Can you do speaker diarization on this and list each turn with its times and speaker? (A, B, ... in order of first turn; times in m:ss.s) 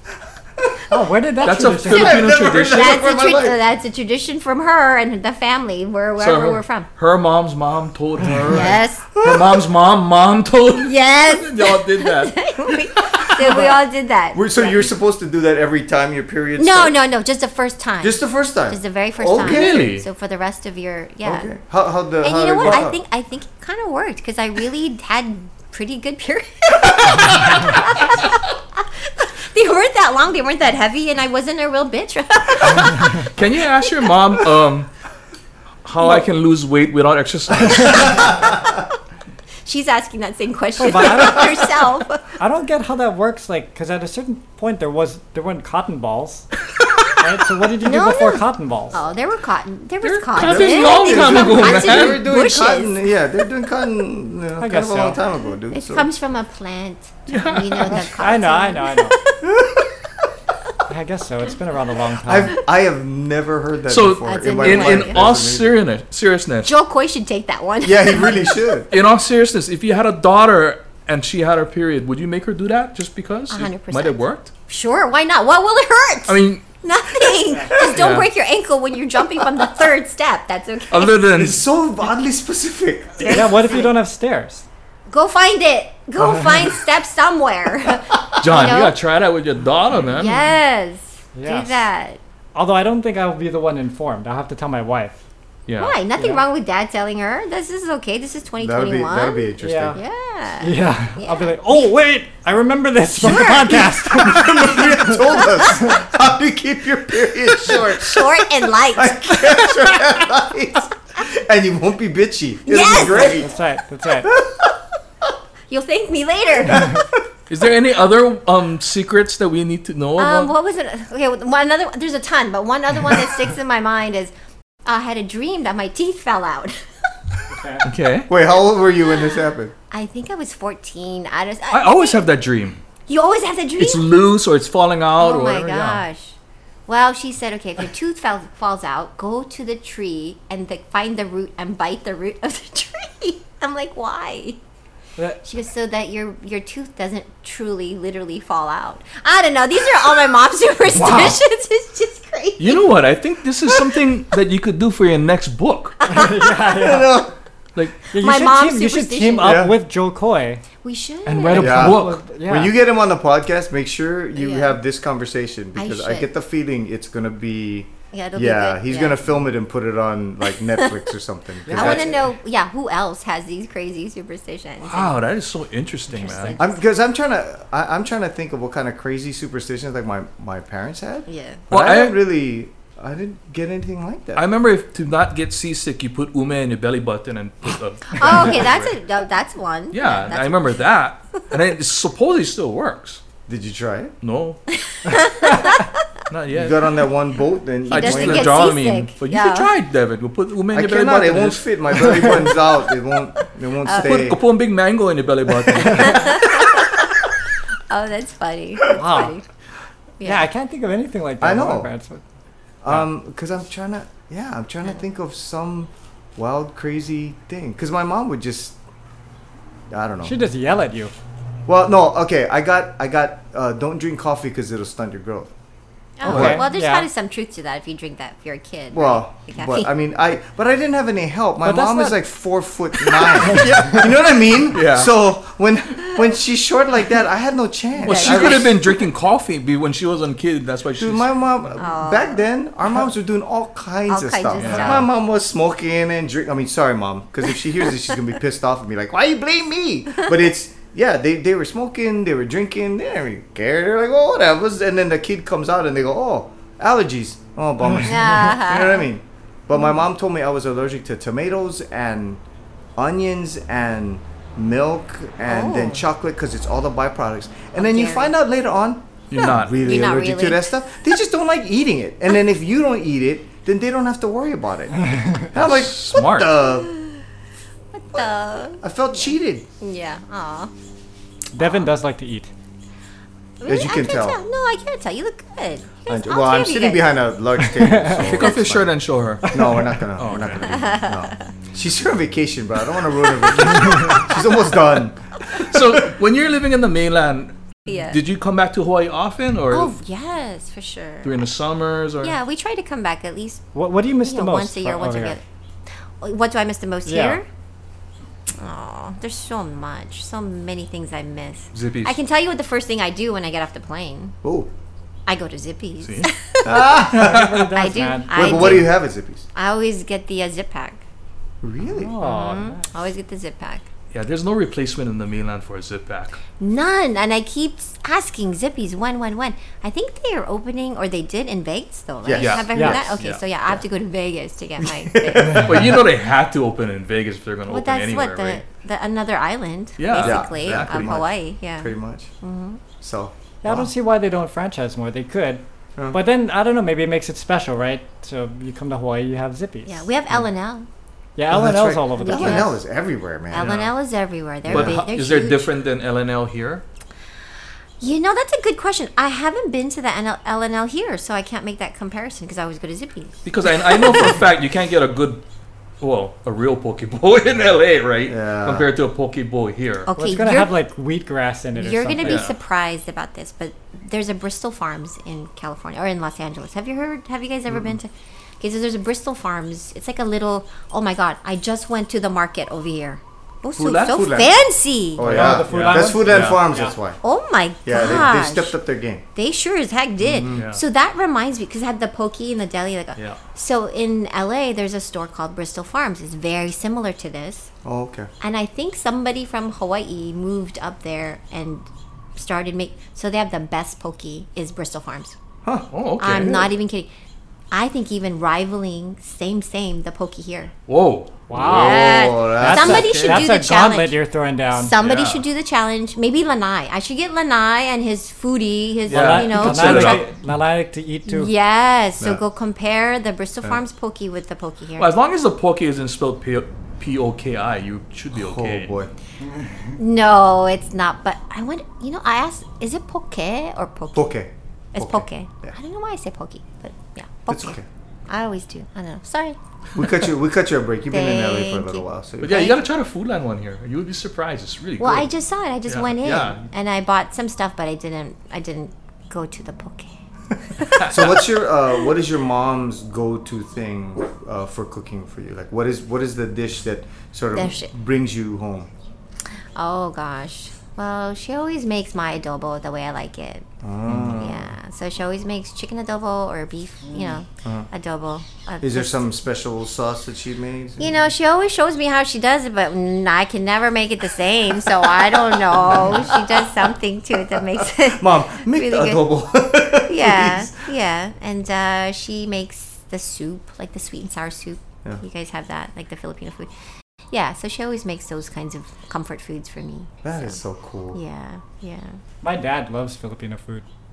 0:00.9-0:02.2 A
0:01.4-0:03.0 B
0:01.8-0:03.6 C
0:02.3-0:06.9 D
0:06.2-0:13.7 B
0:08.2-0:09.7 C
0:08.4-0:09.1 D
0:10.8-0:14.9 D
0:14.3-0:16.9 C
0:16.6-0:21.5 D
0:18.0-0:19.9 C
0:19.4-0:20.0 B
0:21.2-0:23.0 C
0:22.2-0:33.3 D
0:32.7-0:34.9 B
0:35.8-0:38.4 B
0:38.4-0:38.7 D
0:39.6-0:42.3 D
0:40.8-0:41.6 A
0:42.4-0:46.5 A
0:47.2-0:49.0 A
0:47.8-0:53.0 D
0:50.0-0:52.2 B
0:50.4-0:56.1 C
0:54.6-0:55.2 A
0:55.7-0:59.7 D
0:57.3-0:58.0 B
0:57.9-0:59.2 A
0:59.4-0:59.8 C
1:00.9-1:02.6 A
1:02.2-1:05.8 C
1:03.9-1:06.7 B
1:04.2-1:05.2 D
1:06.6-1:08.5 D
1:07.8-1:08.9 C
1:08.9-1:14.5 B
1:13.5-1:21.3 D
1:16.3-1:16.6 B
1:17.4-1:17.7 A
1:17.7-1:18.3 B
1:20.9-1:21.6 B
1:21.3-1:23.4 C
1:23.2-1:23.9 D
1:23.2-1:24.7 A
1:25.1-1:29.0 D
1:28.4-1:30.4 B
1:30.1-1:32.2 D
1:31.3-1:31.9 A
1:32.5-1:35.2 A
1:35.7-1:36.0 B
1:35.8-1:41.9 D
1:36.2-1:36.4 A
1:38.6-1:40.0 C
1:39.6-1:40.0 A
1:40.6-1:45.2 A
1:43.2-1:46.0 D
1:43.2-1:53.5 C
1:47.6-1:49.7 D
1:52.6-1:53.5 D
1:53.3-1:54.3 A
1:54.2-1:54.7 C
1:55.7-1:57.0 D
1:56.6-1:57.2 C
1:57.5-2:00.5 B
2:00.2-2:04.3 D
2:04.8-2:06.9 D
2:07.5-2:07.9 A
2:07.8-2:08.3 B
2:08.3-2:09.7 C
2:09.0-2:12.2 D
2:11.7-2:12.8 B
2:13.1-2:14.0 D
2:13.8-2:16.0 B
2:15.2-2:16.4 D
2:16.9-2:24.6 D
2:25.4-2:32.8 D
2:30.9-2:31.4 B
2:32.6-2:36.0 B
2:36.0-2:36.7 D
2:36.1-2:37.2 A
2:36.8-2:37.3 C
2:38.1-2:40.6 A
2:38.2-2:39.6 D
2:39.4-2:39.7 C
2:40.8-2:41.9 D
2:41.2-2:42.7 A
2:41.5-2:42.2 B
2:41.6-2:52.1 C
2:44.4-2:44.7 D
2:45.8-2:46.3 D
2:48.1-2:49.2 D
2:50.6-2:50.9 D
2:51.6-2:52.2 A
2:51.7-2:55.1 D
2:54.8-2:56.6 B
2:56.1-2:56.8 D
2:56.2-2:56.5 A
2:56.6-3:04.4 C
3:01.3-3:01.6 D
3:01.7-3:02.2 B
3:04.4-3:09.0 B
3:08.2-3:10.7 D
3:09.9-3:13.2 B
3:13.5-3:14.1 C
3:14.2-3:14.6 B
3:14.8-3:16.0 D
3:16.3-3:17.0 B
3:16.5-3:18.7 C
3:17.9-3:22.5 B
3:17.9-3:19.7 D
3:20.7-3:24.4 C
3:23.8-3:24.2 D
3:23.8-3:26.5 B
3:25.9-3:27.2 D
3:27.9-3:29.4 D
3:28.9-3:29.3 A
3:30.2-3:30.4 D
3:30.2-3:32.2 A
3:31.4-3:31.9 C
3:32.8-3:38.8 C
3:39.9-3:40.4 C
3:40.2-3:41.1 A
3:41.6-3:45.5 C
3:46.2-3:49.9 D
3:46.2-3:46.6 B
3:46.2-3:47.1 A
3:46.3-3:46.6 C
3:48.9-3:58.8 C
3:51.6-3:52.2 A
3:53.5-3:54.0 A
3:54.7-3:55.1 B
3:58.0-4:01.7 B
3:58.0-3:58.9 D
4:01.0-4:22.4 C
4:01.8-4:02.4 D
4:04.1-4:05.1 D
4:04.6-4:05.1 B
4:18.0-4:19.1 D
4:23.0-4:36.9 C
4:25.4-4:26.0 D
4:27.7-4:28.3 D
4:29.3-4:29.8 B
4:29.4-4:30.7 D
4:35.5-4:36.5 B
4:36.8-4:37.2 D
4:37.9-4:40.7 D
4:38.8-4:39.7 C
4:41.5-4:42.5 A
4:43.6-4:47.1 D
4:43.6-4:44.4 C
4:46.1-4:48.9 C
4:47.6-4:48.4 A
4:48.2-4:50.8 B
4:49.4-4:56.0 C
4:49.4-4:49.9 A
4:50.3-4:51.4 D
4:53.5-4:54.4 D
4:55.5-5:00.0 B
4:57.9-4:58.2 D
4:59.7-5:01.4 D
5:01.2-5:02.4 B
5:02.2-5:03.7 D
5:03.7-5:05.4 A
5:04.2-5:07.4 D
5:07.0-5:07.4 A
5:08.5-5:14.4 D
5:11.7-5:12.2 B
5:14.4-5:14.7 C
5:15.3-5:19.0 D
5:16.0-5:16.3 B
5:16.6-5:17.7 C
5:17.1-5:18.8 A
5:17.1-5:17.6 B
5:18.3-5:19.5 C
5:19.5-5:21.0 D
5:21.6-5:22.1 C
5:21.8-5:22.9 A
5:22.2-5:23.9 D
5:24.1-5:26.4 B
5:26.6-5:35.6 D
5:32.2-5:33.1 C
5:32.3-5:33.4 B
5:32.7-5:33.0 A
5:34.8-5:36.0 C
5:35.4-5:38.6 B
5:37.7-5:42.8 D
5:40.0-5:41.2 B
5:40.2-5:42.3 C
5:43.0-5:43.9 C
5:43.6-5:50.1 A
5:49.8-5:50.9 D
5:51.4-5:52.6 A
5:51.5-5:53.7 C
5:52.2-5:52.8 D
5:53.5-5:55.7 D
5:53.5-5:53.9 B
5:54.6-5:55.0 C
5:54.7-5:56.8 B
5:58.0-6:04.4 D
6:03.4-6:05.4 B
6:06.0-6:10.1 B
6:08.3-6:08.9 C
6:10.0-6:10.7 D
6:10.2-6:12.5 A
6:11.7-6:25.5 D
6:12.2-6:12.6 B
6:23.8-6:24.4 B
6:23.8-6:24.6 C
6:25.2-6:27.2 C
6:25.2-6:26.6 B
6:25.2-6:27.0 A
6:27.2-6:28.7 D
6:27.8-6:29.2 C
6:29.3-6:37.7 D
6:30.2-6:30.6 C
6:30.5-6:30.8 B
6:37.8-6:38.3 C
6:38.4-6:45.4 D
6:45.9-6:46.7 B
6:46.2-6:47.1 D
6:47.7-6:50.7 D
6:50.9-6:51.4 B
6:51.5-6:54.9 A
6:51.5-6:53.3 C
6:51.6-6:54.2 D
6:52.8-6:53.5 B
6:54.7-7:00.2 D
6:55.0-6:55.4 B
6:59.1-7:00.3 B
6:59.1-7:01.5 A
7:01.3-7:05.1 D
7:05.0-7:08.9 B
7:08.3-7:09.1 C
7:09.4-7:10.0 A
7:10.0-7:14.3 D
7:14.1-7:15.7 C
7:14.9-7:17.8 D
7:17.5-7:17.8 C
7:18.3-7:19.6 D
7:20.0-7:22.7 C
7:21.1-7:22.8 D
7:22.4-7:25.3 B
7:25.0-7:30.2 D
7:25.9-7:26.6 B
7:30.8-7:31.1 D
7:31.0-7:31.3 B
7:31.0-7:38.9 C
7:37.5-7:37.9 D
7:39.8-7:43.7 D
7:43.8-7:44.7 C
7:44.1-7:44.5 B
7:44.3-7:49.2 D
7:47.6-7:47.9 C
7:48.8-7:51.1 C
7:51.0-7:59.2 D
7:55.7-7:56.6 C
7:57.5-8:00.8 C
8:00.1-8:06.7 D
8:07.3-8:10.6 D
8:10.2-8:11.2 C
8:11.1-8:12.2 D
8:12.4-8:13.8 A